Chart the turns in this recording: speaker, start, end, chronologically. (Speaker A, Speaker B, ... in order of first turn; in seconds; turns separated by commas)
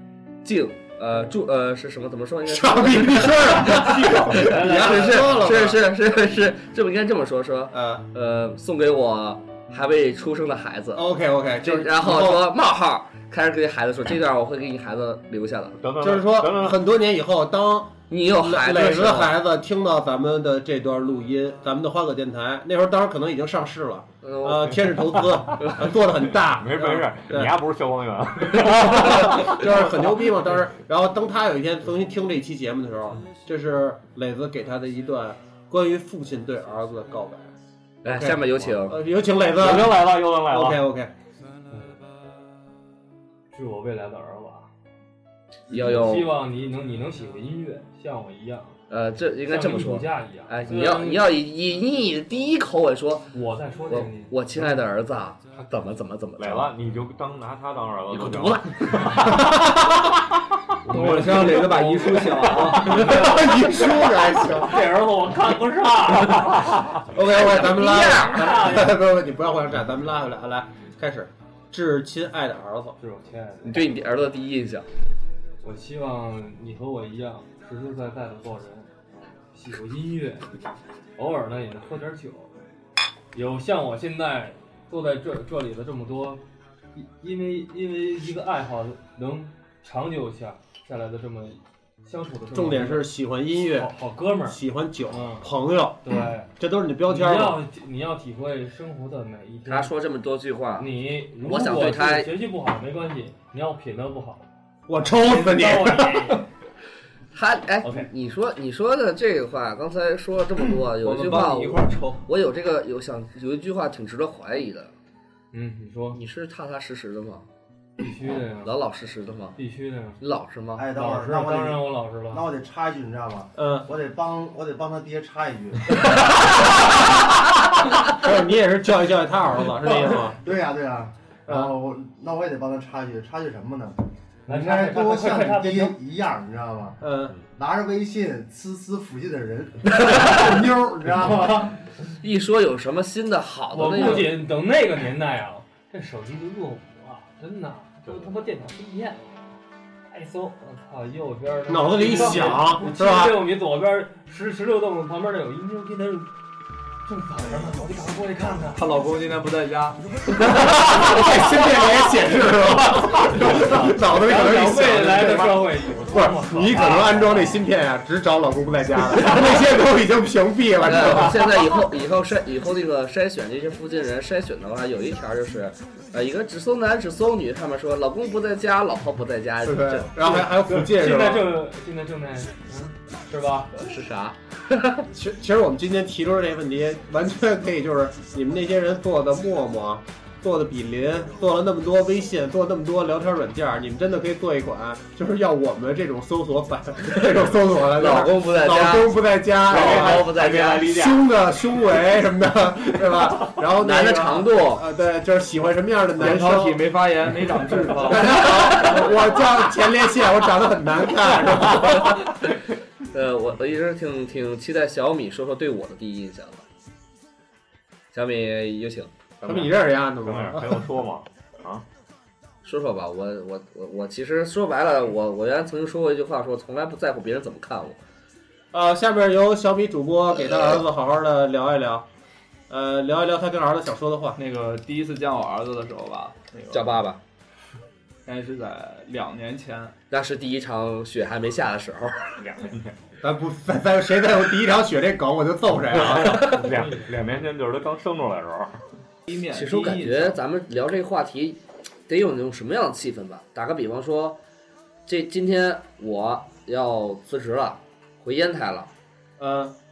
Speaker A: 0.4-11.0, Speaker B: 2.5-5.8, Speaker C: 4.4-5.5, Speaker B: 7.7-8.0, Speaker B: 10.9-12.5, Speaker A: 11.6-15.8, Speaker D: 15.8-16.8, Speaker B: 16.0-27.5, Speaker A: 18.1-19.4, Speaker A: 24.2-25.8, Speaker D: 25.2-25.8, Speaker D: 26.6-30.0, Speaker B: 28.6-37.5, Speaker A: 38.0-39.0, Speaker B: 38.0-41.1, Speaker D: 39.5-40.8, Speaker C: 41.7-42.0, Speaker C: 43.5-44.7, Speaker A: 45.7-46.3, Speaker C: 45.9-48.8, Speaker A: 48.9-53.3, Speaker C: 49.5-51.2, Speaker C: 53.3-54.7, Speaker A: 53.9-56.7, Speaker D: 56.4-59.5, Speaker A: 58.1-58.6, Speaker B: 59.5-60.0, Speaker C: 60.9-61.3, Speaker E: 60.9-63.0, Speaker B: 60.9-64.9, Speaker C: 62.9-63.4, Speaker C: 64.6-66.9, Speaker B: 67.1-73.0, Speaker A: 67.3-68.7, Speaker C: 68.2-68.9, Speaker C: 73.0-73.8, Speaker A: 73.7-74.8, Speaker C: 75.6-78.9, Speaker C: 79.5-80.5, Speaker C: 81.2-82.6, Speaker C: 83.3-86.4, Speaker C: 86.9-93.1, Speaker B: 92.5-93.9, Speaker C: 93.7-94.6, Speaker B: 94.5-97.6, Speaker C: 95.1-95.5, Speaker C: 96.0-96.5, Speaker C: 97.1-99.9, Speaker A: 99.7-100.9, Speaker C: 100.8-104.5, Speaker A: 101.4-102.3, Speaker B: 104.9-106.4, Speaker C: 105.0-106.4, Speaker A: 107.3-114.9, Speaker E: 111.0-112.2, Speaker C: 115.5-116.2, Speaker A: 116.1-117.5, Speaker C: 118.0-118.7, Speaker A: 118.5-119.6, Speaker C: 119.5-120.2, Speaker A: 120.2-120.9, Speaker F: 120.8-126.0, Speaker C: 120.9-122.4, Speaker B: 123.5-123.9, Speaker B: 126.0-127.2, Speaker B: 128.0-130.4, Speaker F: 130.4-137.0, Speaker B: 131.5-131.7, Speaker C: 134.5-135.9, Speaker B: 137.0-137.3, Speaker F: 137.5-141.8, Speaker A: 140.1-140.5, Speaker A: 142.2-144.4, Speaker C: 143.7-149.4, Speaker C: 150.1-156.3, Speaker B: 151.7-153.5, Speaker C: 157.1-158.8, Speaker E: 158.8-160.3, Speaker B: 160.4-165.6, Speaker C: 164.2-167.6, Speaker B: 166.1-171.6, Speaker A: 170.8-180.4, Speaker B: 179.6-181.6, Speaker C: 180.3-183.7, Speaker A: 183.7-185.1, Speaker B: 185.1-206.8, Speaker A: 197.9-201.0, Speaker D: 199.7-201.3, Speaker A: 203.8-204.8, Speaker E: 206.2-208.4, Speaker B: 208.0-212.3, Speaker A: 208.1-209.1, Speaker A: 213.1-216.6, Speaker A: 218.1-219.1, Speaker D: 219.4-221.8, Speaker B: 219.4-220.8, Speaker A: 222.6-228.0, Speaker B: 228.7-232.0, Speaker B: 232.7-234.4, Speaker E: 234.4-237.0, Speaker A: 236.7-237.2, Speaker E: 238.2-239.9, Speaker A: 240.1-242.2, Speaker D: 242.4-242.9, Speaker B: 243.2-246.6, Speaker D: 246.0-248.8, Speaker C: 246.6-247.1, Speaker E: 249.3-250.3, Speaker A: 249.5-254.4, Speaker A: 255.1-258.9, Speaker B: 259.4-259.7